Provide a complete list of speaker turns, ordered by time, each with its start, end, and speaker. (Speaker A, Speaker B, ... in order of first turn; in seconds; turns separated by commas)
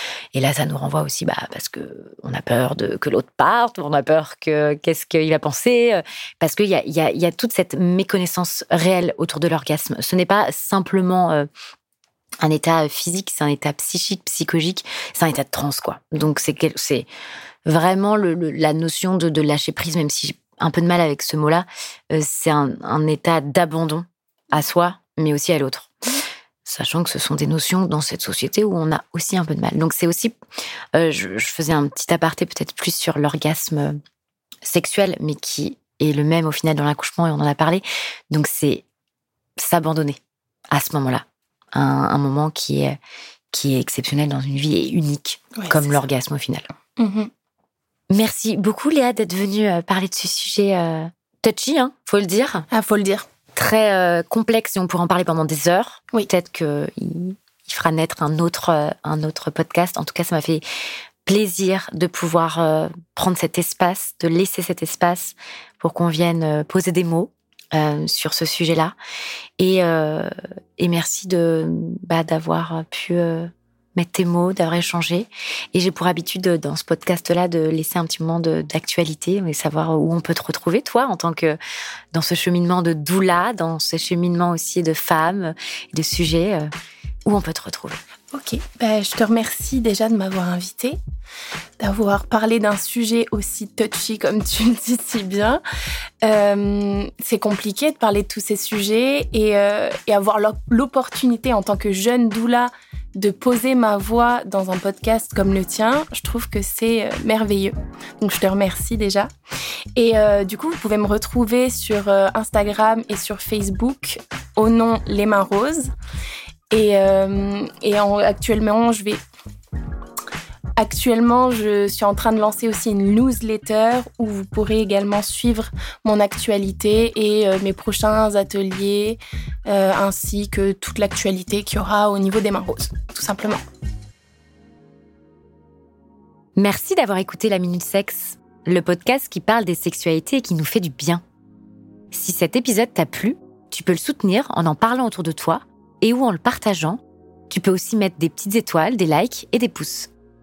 Speaker A: 0.3-11.5, Speaker A: 12.4-17.1, Speaker A: 17.6-25.9, Speaker A: 26.6-30.4, Speaker A: 30.9-34.0, Speaker A: 34.6-38.8, Speaker A: 39.6-40.2, Speaker A: 40.7-43.0, Speaker A: 43.5-46.7, Speaker B: 45.5-45.9, Speaker B: 47.0-47.3, Speaker A: 48.1-52.7, Speaker B: 52.7-53.3, Speaker A: 53.5-60.6, Speaker A: 61.2-69.0, Speaker A: 69.6-81.6, Speaker A: 82.1-86.7, Speaker A: 87.2-88.0, Speaker B: 88.3-91.0, Speaker B: 91.8-95.6, Speaker B: 96.2-109.3, Speaker B: 110.0-115.9, Speaker B: 116.7-119.2, Speaker B: 120.8-133.6, Speaker A: 136.6-141.2, Speaker A: 142.1-150.1